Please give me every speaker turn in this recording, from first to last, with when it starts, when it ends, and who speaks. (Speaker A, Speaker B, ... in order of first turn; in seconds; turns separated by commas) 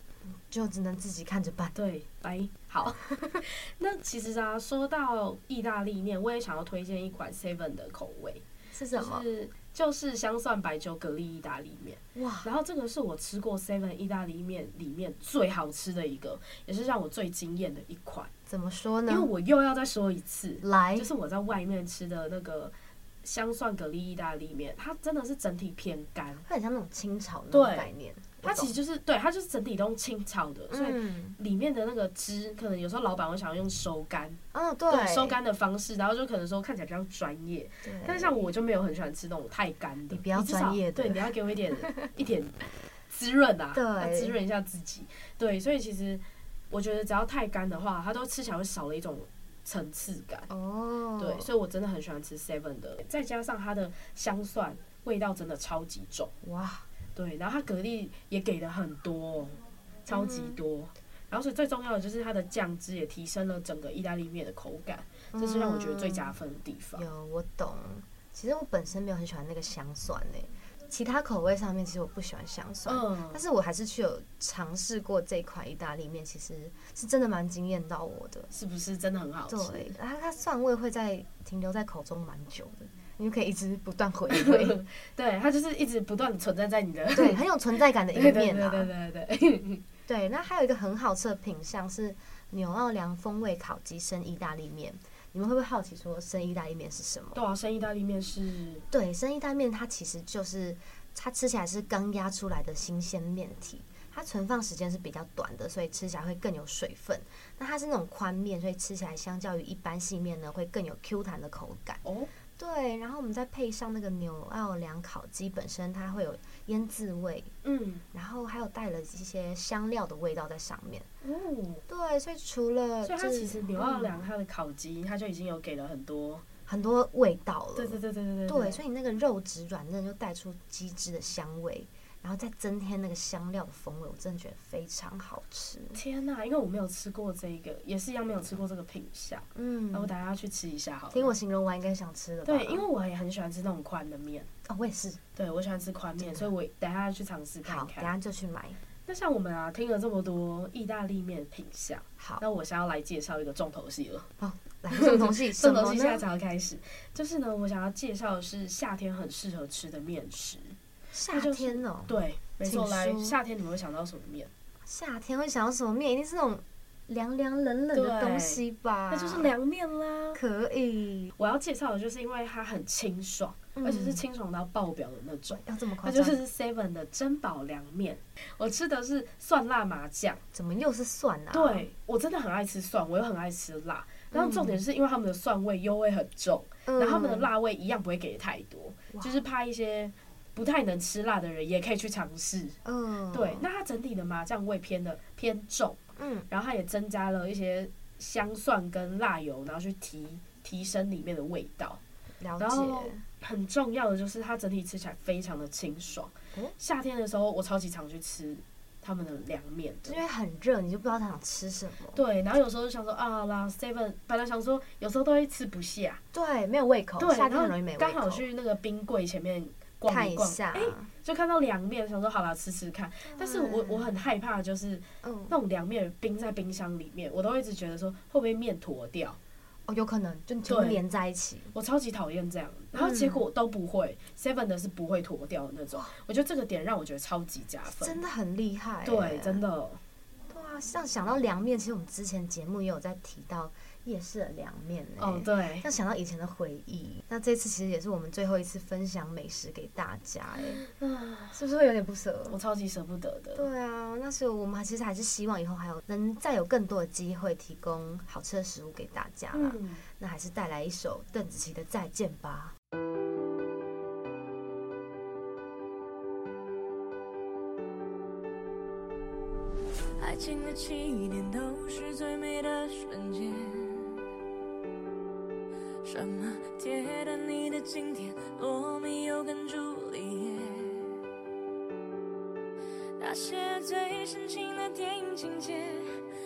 Speaker A: 0.3-1.8, Speaker B: 1.8-18.3, Speaker A: 3.0-3.4, Speaker A: 8.7-9.3, Speaker A: 12.2-12.5, Speaker A: 18.5-19.3, Speaker B: 19.1-22.7, Speaker A: 20.6-21.1, Speaker B: 23.2-26.4, Speaker A: 26.5-28.7, Speaker B: 27.5-27.9, Speaker B: 28.4-42.5, Speaker A: 30.7-31.4, Speaker A: 34.5-35.4, Speaker A: 37.8-38.4, Speaker A: 40.1-41.3, Speaker B: 43.1-50.5, Speaker A: 43.7-44.4, Speaker A: 50.5-51.5, Speaker B: 51.2-56.3, Speaker A: 56.4-56.9, Speaker B: 57.2-67.1, Speaker A: 60.1-60.6, Speaker A: 65.3-66.3, Speaker A: 67.0-78.5, Speaker B: 72.9-73.4, Speaker B: 78.5-79.9, Speaker A: 79.5-84.8, Speaker B: 84.3-87.4, Speaker A: 87.1-88.9, Speaker B: 88.1-89.8, Speaker A: 90.1-97.4, Speaker B: 97.3-98.8, Speaker A: 98.9-112.0, Speaker B: 112.0-112.3, Speaker A: 112.6-117.5, Speaker B: 117.6-118.0, Speaker A: 118.1-121.1, Speaker B: 121.2-121.8, Speaker A: 121.9-124.3, Speaker B: 123.0-126.5, Speaker A: 126.7-136.0, Speaker B: 127.8-128.8, Speaker B: 135.9-141.3, Speaker A: 139.6-140.1, Speaker A: 141.1-142.9, Speaker B: 142.5-144.5, Speaker A: 144.7-145.2, Speaker B: 145.4-148.1, Speaker A: 146.2-146.5, Speaker A: 147.6-148.8, Speaker B: 149.1-154.3, Speaker A: 154.4-156.2, Speaker B: 154.9-160.8, Speaker A: 161.1-163.4, Speaker B: 161.3-164.5, Speaker A: 164.8-169.5, Speaker B: 167.9-170.4, Speaker A: 170.3-171.3, Speaker B: 171.4-180.4, Speaker A: 173.8-174.2, Speaker A: 175.5-176.4, Speaker A: 180.5-181.9, Speaker B: 181.5-192.8, Speaker A: 184.3-184.8, Speaker A: 186.9-187.5, Speaker A: 192.8-193.7, Speaker B: 193.3-202.0, Speaker A: 196.2-196.5, Speaker A: 202.4-203.2, Speaker B: 202.6-210.2, Speaker A: 210.1-212.2, Speaker B: 212.1-216.2, Speaker A: 216.3-218.4, Speaker B: 217.2-229.4, Speaker A: 220.1-221.1, Speaker A: 223.3-224.1, Speaker A: 225.2-225.6, Speaker A: 229.9-231.7, Speaker B: 230.7-231.0, Speaker B: 231.7-238.2, Speaker A: 232.9-233.4, Speaker A: 237.9-239.6, Speaker B: 239.0-240.0, Speaker A: 240.5-250.8, Speaker B: 245.2-245.9, Speaker B: 250.8-251.6, Speaker A: 251.5-252.6, Speaker B: 252.5-253.7, Speaker A: 253.6-262.8, Speaker B: 259.5-260.0, Speaker C: 270.2-274.2, Speaker C: 276.0-281.2, Speaker C: 283.2-286.1